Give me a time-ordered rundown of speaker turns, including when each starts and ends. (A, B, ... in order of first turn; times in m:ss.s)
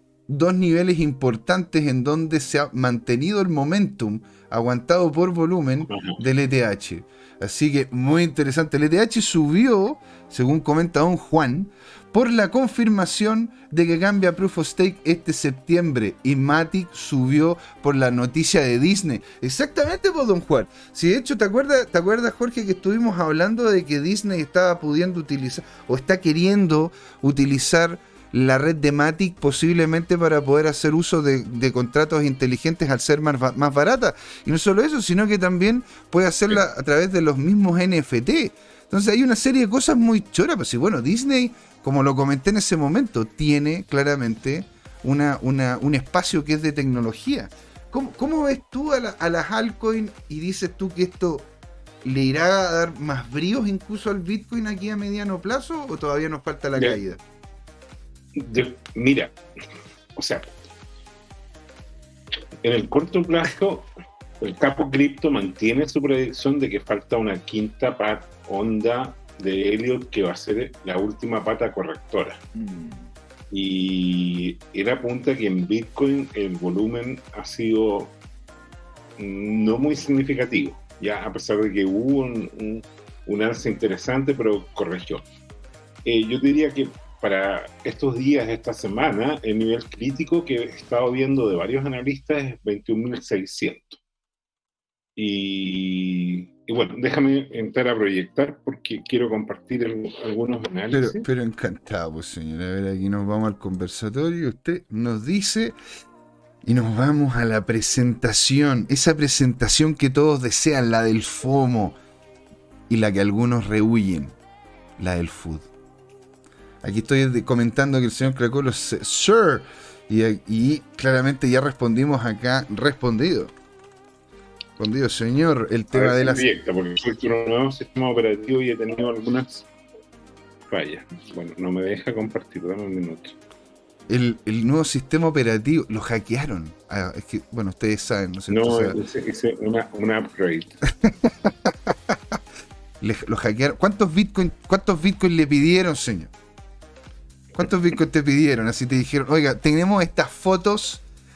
0:00.3-0:51.5 A
0:05.9-0:06.2 B
0:52.0-0:57.2 A
0:58.3-0:59.4 B
1:00.1-1:00.5 B
1:02.6-1:03.9 B
1:04.4-1:12.4 B
1:12.5-1:13.1 A
1:13.5-1:18.2 B
1:19.2-1:25.2 B
1:26.0-1:34.0 B
1:35.2-1:41.3 B
1:40.9-1:45.8 A
1:46.6-1:52.0 A
1:52.9-1:54.4 A
1:55.0-1:55.7 A
1:56.8-2:03.5 A
2:04.8-2:06.4 A
2:05.9-2:09.7 B
2:10.7-2:13.4 B
2:14.1-2:19.0 A
2:18.5-2:20.8 B
2:21.0-2:22.4 A
2:23.0-2:26.3 A
2:27.5-2:31.0 A